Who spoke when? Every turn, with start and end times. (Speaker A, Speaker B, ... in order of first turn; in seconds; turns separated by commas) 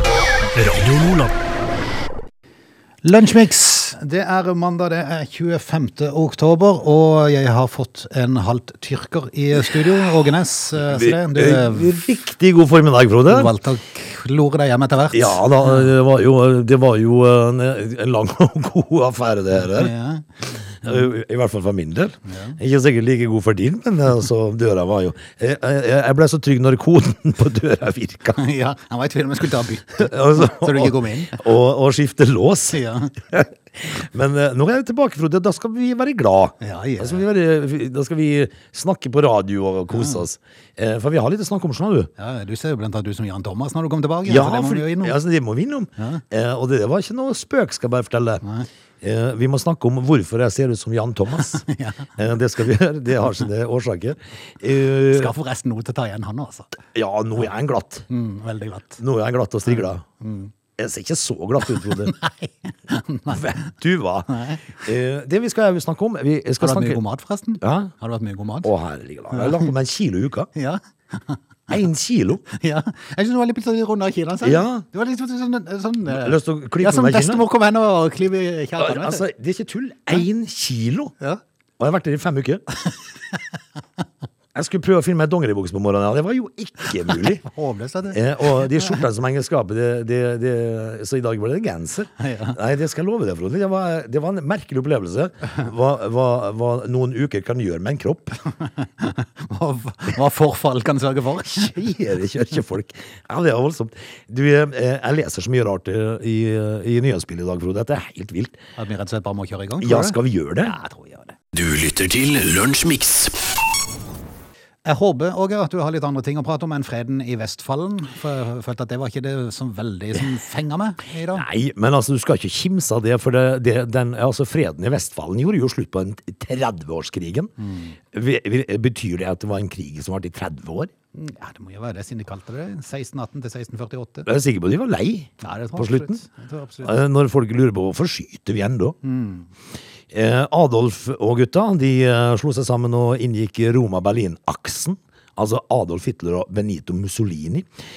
Speaker A: 0.5-1.3, Speaker B: 3.0-11.9, Speaker C: 10.8-13.5, Speaker B: 13.3-15.9, Speaker C: 15.1-19.9, Speaker B: 19.6-21.0, Speaker C: 20.8-28.4, Speaker B: 22.2-22.6, Speaker B: 28.4-31.4, Speaker C: 30.0-42.1, Speaker B: 32.7-33.2, Speaker B: 36.6-37.2, Speaker B: 39.9-40.2, Speaker B: 42.2-45.1, Speaker C: 44.2-48.4, Speaker B: 46.0-46.2, Speaker C: 49.0-51.6, Speaker B: 51.4-52.1, Speaker C: 52.1-55.3, Speaker B: 55.1-56.8, Speaker C: 56.9-58.0, Speaker B: 58.1-59.0, Speaker C: 59.0-60.0, Speaker B: 59.7-60.5, Speaker C: 60.8-62.1, Speaker B: 61.8-63.7, Speaker C: 63.3-67.0, Speaker B: 64.3-64.8, Speaker B: 66.6-68.7, Speaker C: 67.6-67.9, Speaker C: 68.6-70.5, Speaker B: 69.3-69.7, Speaker B: 70.5-71.4, Speaker C: 71.7-72.4, Speaker B: 72.5-79.2, Speaker C: 74.4-74.8, Speaker C: 76.1-77.5, Speaker C: 78.8-81.1, Speaker C: 81.8-82.6, Speaker C: 84.5-87.4, Speaker B: 87.1-89.0, Speaker C: 88.1-98.4, Speaker B: 92.2-92.6, Speaker B: 98.8-101.8, Speaker C: 101.4-108.5, Speaker B: 108.8-111.3, Speaker C: 109.8-110.7, Speaker A: 111.5-113.4, Speaker B: 114.8-121.5, Speaker C: 121.3-127.5, Speaker B: 127.6-128.0, Speaker C: 128.1-130.9, Speaker B: 131.1-134.3, Speaker C: 134.2-136.2, Speaker B: 135.4-137.0, Speaker C: 136.8-139.0, Speaker B: 139.0-139.5, Speaker C: 140.1-147.7